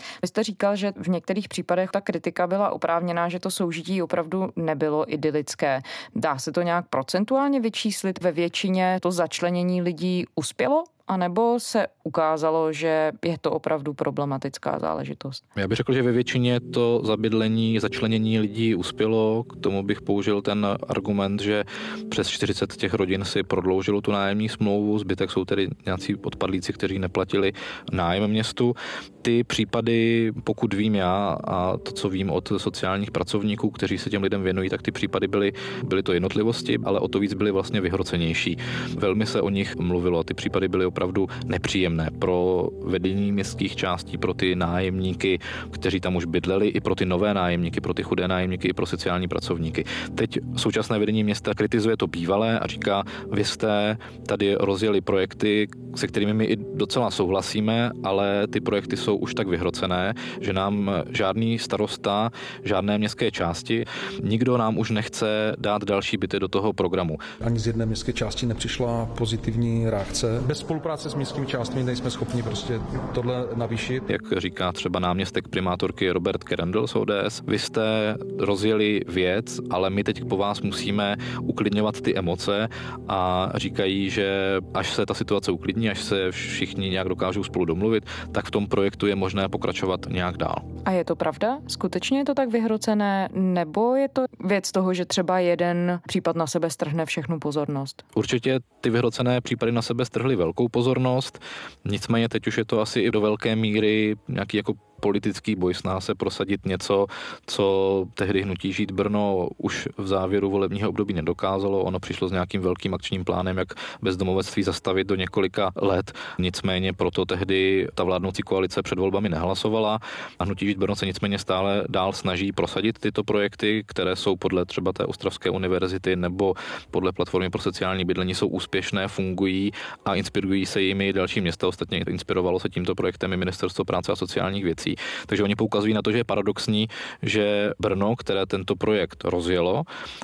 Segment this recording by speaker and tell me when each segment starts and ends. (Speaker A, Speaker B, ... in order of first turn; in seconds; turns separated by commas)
Speaker A: 0.2-15.4, Speaker B: 15.6-67.2, Speaker C: 67.4-74.1, Speaker B: 74.1-90.7, Speaker A: 90.8-98.0, Speaker B: 98.2-139.9